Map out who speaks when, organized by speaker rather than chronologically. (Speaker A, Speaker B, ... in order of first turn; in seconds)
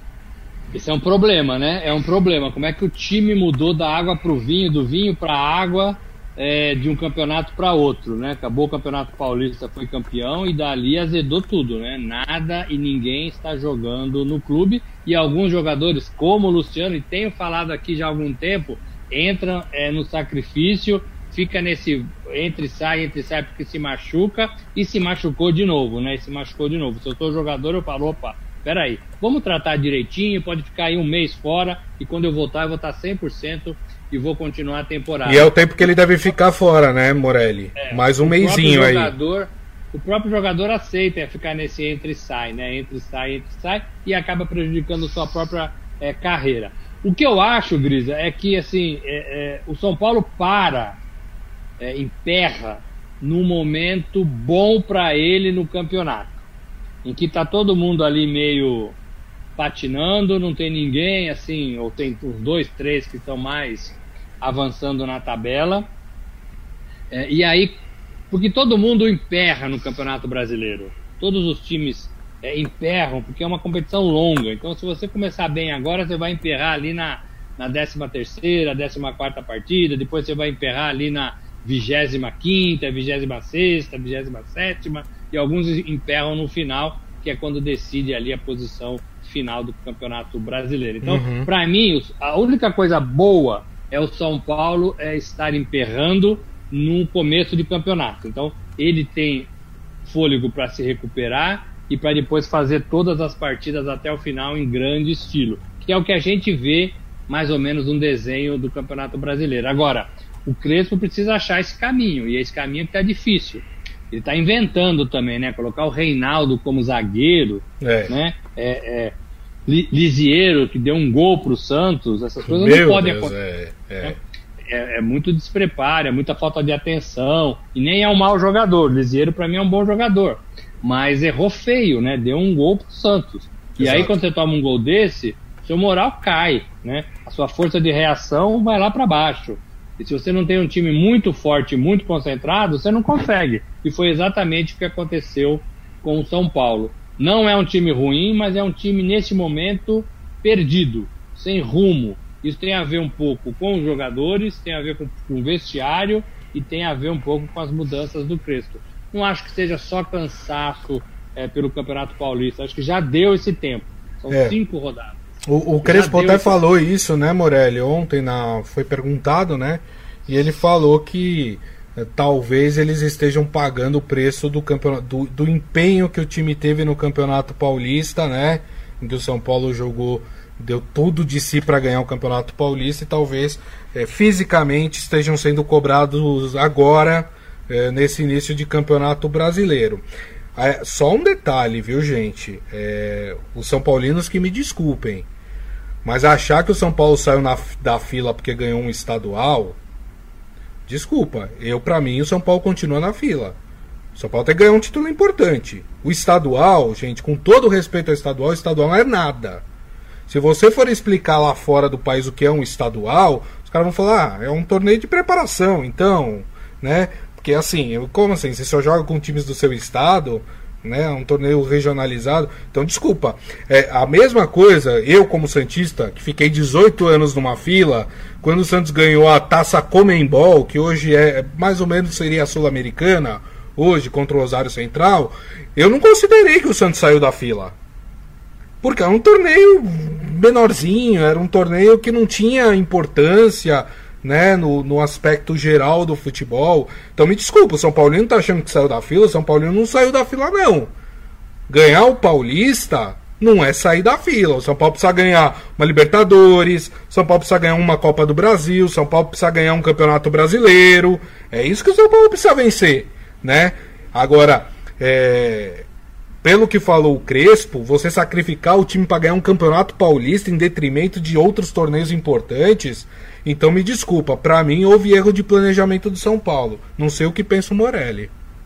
Speaker A: 0.7-36.4, 37.8-51.0, 51.8-56.4, 57.0-59.0, 59.6-65.9, 67.1-99.5, 100.0-119.2, 119.7-123.3, 124.0-165.2, 165.8-166.6
Speaker B: 35.2-39.1, 91.0-91.5, 117.8-118.1, 122.4-124.2, 133.8-134.2, 164.3-164.6, 165.5-190.0, 190.6-195.3, 196.0-199.8, 200.9-203.6, 204.2-209.7, 210.3-237.8, 238.8-250.9, 251.7-265.9, 266.4-278.3